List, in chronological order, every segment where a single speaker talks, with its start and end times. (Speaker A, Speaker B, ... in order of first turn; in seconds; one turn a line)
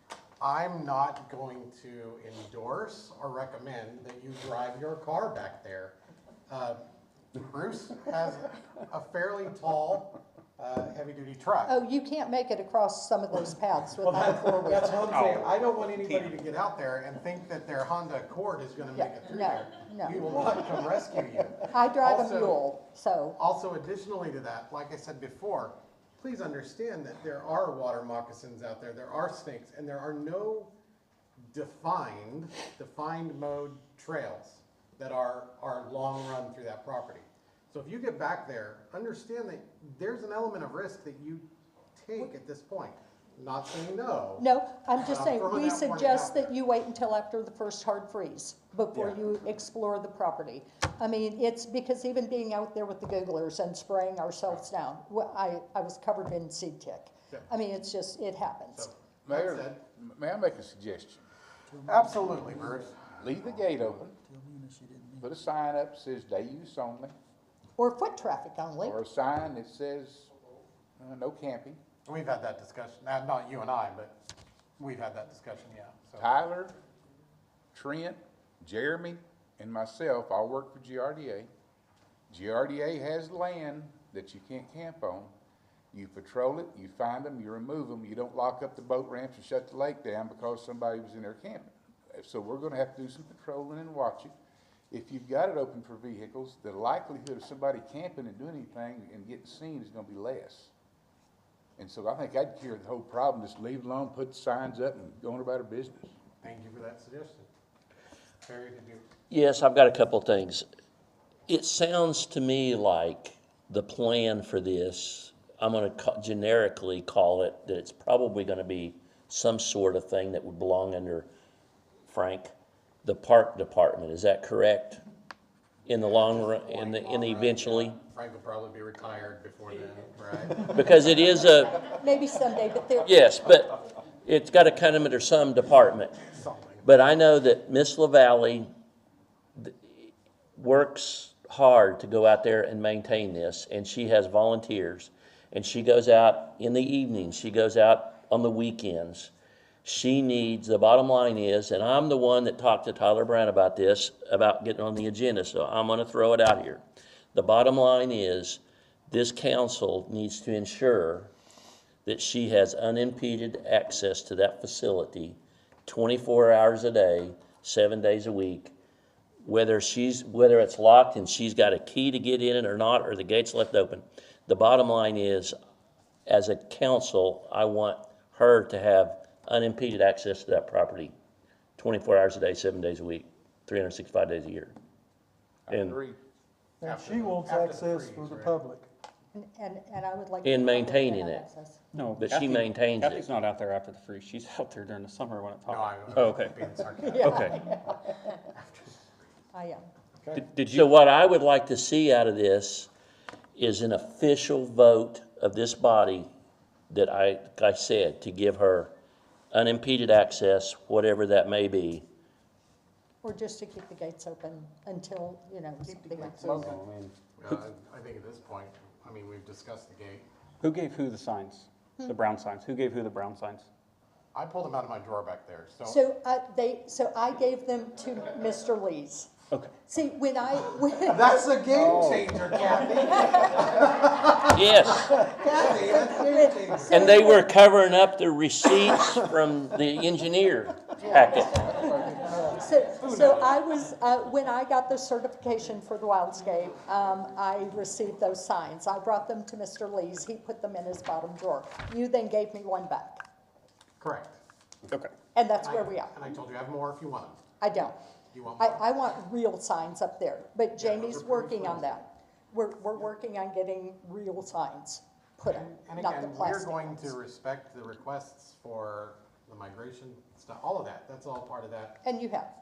Speaker A: 0.4-6.0
Speaker A: 6.5-6.8
Speaker A: 7.3-11.7
Speaker B: 11.7-15.2
Speaker A: 14.0-22.6
Speaker C: 15.1-16.4
Speaker B: 19.0-20.5
Speaker B: 21.7-23.4
Speaker A: 23.4-30.7
Speaker A: 31.5-44.5
Speaker B: 44.4-58.9
Speaker A: 45.0-46.5
Speaker A: 58.7-59.8
Speaker D: 59.3-61.3
Speaker E: 61.8-62.6
Speaker A: 61.8-63.0
Speaker D: 63.2-64.2
Speaker E: 64.5-65.2
Speaker D: 65.2-67.2
Speaker B: 67.8-69.0
Speaker D: 68.8-70.3
Speaker D: 71.0-71.8
Speaker A: 72.0-74.1
Speaker A: 74.8-76.3
Speaker D: 76.2-76.8
Speaker D: 77.7-81.5
Speaker D: 82.3-85.3
Speaker D: 85.9-94.3
Speaker D: 94.9-100.7
Speaker D: 101.8-106.1
Speaker A: 106.4-107.5
Speaker A: 108.4-109.0
Speaker F: 109.3-110.7
Speaker F: 111.5-121.3
Speaker F: 122.1-122.5
Speaker F: 123.0-125.0
Speaker F: 125.9-128.0
Speaker A: 126.1-130.9
Speaker F: 130.7-131.8
Speaker B: 131.9-133.1
Speaker F: 133.0-136.2
Speaker A: 136.3-136.9
Speaker F: 136.8-138.7
Speaker F: 140.6-149.3
Speaker F: 149.8-156.8
Speaker F: 157.3-161.3
Speaker F: 162.1-168.7
Speaker F: 169.4-175.6
Speaker F: 176.3-181.1
Speaker F: 181.8-184.8
Speaker D: 185.7-186.2
Speaker F: 185.7-186.0
Speaker E: 186.8-188.8
Speaker A: 186.8-188.6
Speaker B: 189.3-191.8
Speaker F: 190.4-191.5
Speaker C: 191.9-197.6
Speaker F: 192.2-193.2
Speaker A: 195.7-197.8
Speaker B: 197.0-197.9
Speaker A: 198.6-198.9
Speaker B: 199.5-199.9
Speaker C: 200.3-200.9
Speaker F: 200.7-202.9
Speaker F: 203.6-206.3
Speaker F: 206.9-208.9
Speaker F: 209.5-212.1
Speaker B: 213.2-216.7
Speaker A: 216.0-216.8
Speaker C: 216.4-217.5
Speaker A: 217.4-220.2
Speaker C: 220.6-223.7
Speaker A: 224.3-226.0
Speaker B: 225.8-229.3
Speaker B: 229.9-231.3
Speaker A: 231.1-237.4
Speaker F: 234.5-235.1
Speaker B: 235.9-237.4
Speaker F: 236.9-241.6
Speaker B: 241.6-253.2
Speaker A: 254.0-254.4
Speaker B: 255.3-256.1
Speaker A: 255.6-257.4
Speaker B: 257.6-258.0
Speaker A: 258.3-258.8
Speaker B: 258.6-267.1
Speaker A: 260.8-262.0
Speaker A: 265.4-272.0
Speaker B: 272.0-272.5